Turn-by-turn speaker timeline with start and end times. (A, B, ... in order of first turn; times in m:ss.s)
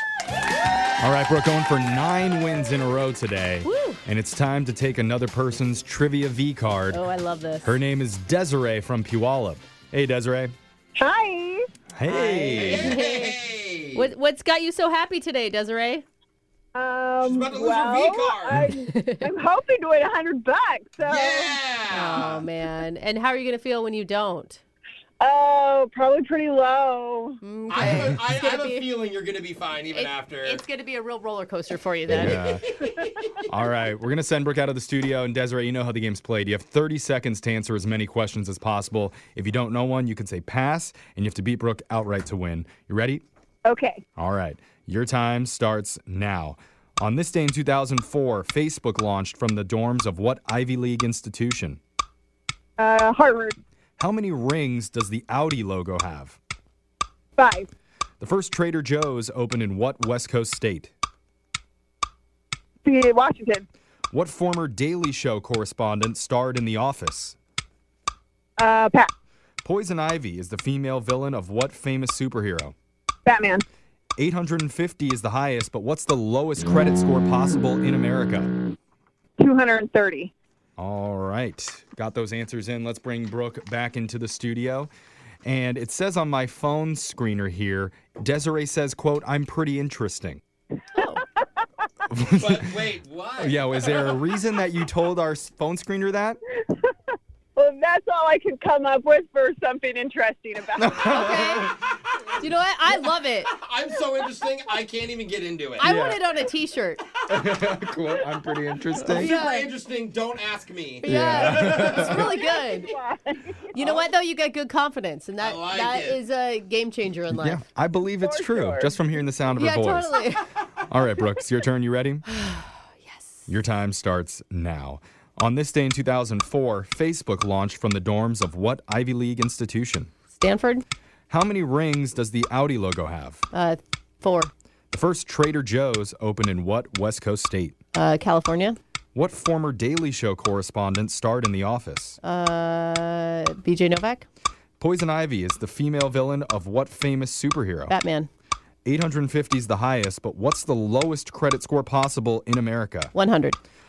0:01.0-0:07.0 A
0:03.6-0:04.0 B
0:06.9-0:07.8 B
0:07.6-0:10.5 A
0:11.0-0:11.6 C
0:12.0-0:13.0 A
0:12.1-0:13.4 B
0:12.5-0:14.1 D
0:13.9-0:16.0 B
0:16.8-0:21.6 C
0:17.2-0:18.6 D
0:18.9-0:19.2 B
0:21.1-0:22.4 D
0:21.9-0:24.6 B
0:25.2-0:27.4 C
0:27.4-0:28.9 B
0:27.7-0:30.6 D
0:29.9-0:33.1 B
0:32.1-0:32.6 A
0:33.5-0:43.2 A
0:43.7-0:44.0 C
0:44.2-0:51.8 A
0:52.8-0:53.6 C
0:54.0-0:56.4 A
0:57.4-0:57.7 C
0:58.2-1:00.9 A
1:02.8-1:03.7 C
1:04.1-1:07.4 A
1:08.6-1:09.1 C
1:09.6-1:12.8 A
1:13.3-1:13.6 C
1:14.2-1:18.5 A
1:19.4-1:20.3 C
1:20.8-1:24.9 A
1:25.4-1:30.4 A
1:31.0-1:31.2 B
1:32.1-1:32.8 A
1:32.4-1:34.2 D
1:33.4-1:36.4 A
1:37.6-1:41.2 C
1:40.8-1:41.7 A
1:41.0-1:41.7 B
1:42.4-1:43.5 B
1:43.5-1:45.9 D
1:45.8-1:47.0 B
1:45.8-1:46.2 A
1:47.3-1:49.3 A
1:49.0-1:49.7 B
1:49.0-1:52.3 D
1:51.0-1:52.9 B
1:51.1-1:52.3 A
1:52.0-1:53.7 C
1:53.7-1:57.6 B
1:53.8-1:54.1 D
1:55.4-1:56.2 D
1:57.3-2:00.2 A
1:58.2-1:59.0 C
1:59.6-2:00.5 B
2:00.9-2:02.3 A
2:02.3-2:03.4 B
2:03.5-2:10.1 A
2:10.3-2:10.8 B
2:11.3-2:13.4 A
2:13.5-2:14.5 B
2:14.9-2:17.8 A
2:17.9-2:18.8 B
2:19.1-2:22.2 A
2:22.2-2:24.2 B
2:24.8-2:27.9 A
2:27.9-2:28.3 B
2:28.8-2:33.1 A
2:33.1-2:33.6 B